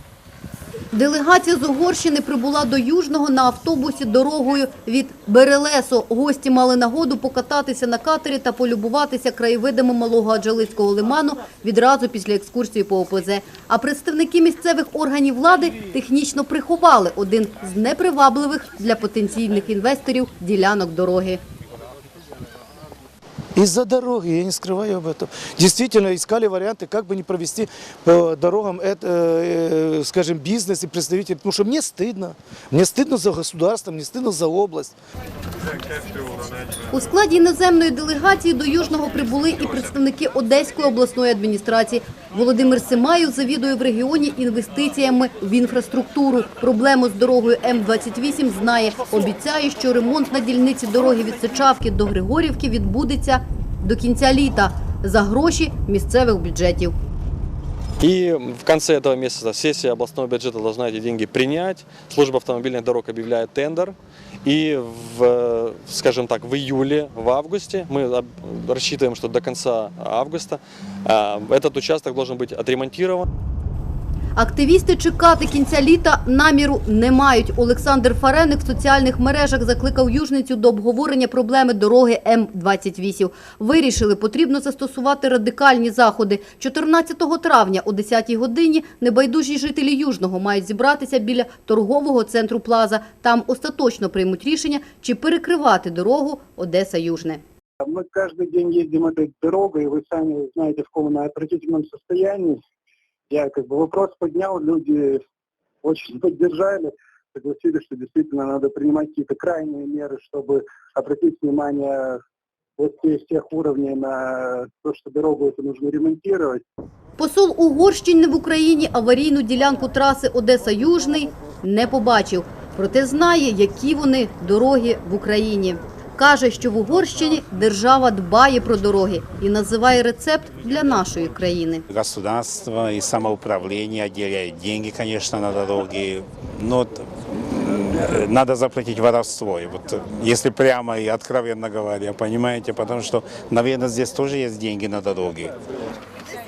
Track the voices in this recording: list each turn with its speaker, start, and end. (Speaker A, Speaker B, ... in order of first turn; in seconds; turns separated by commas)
Speaker A: 0.9-21.4, Speaker B: 23.6-35.0, Speaker A: 36.9-56.9, Speaker C: 58.0-73.2, Speaker A: 74.3-97.4, Speaker D: 97.8-102.6, Speaker D: 103.3-105.2, Speaker D: 105.8-112.2, Speaker D: 112.8-116.6, Speaker A: 117.2-131.8, Speaker E: 131.9-145.5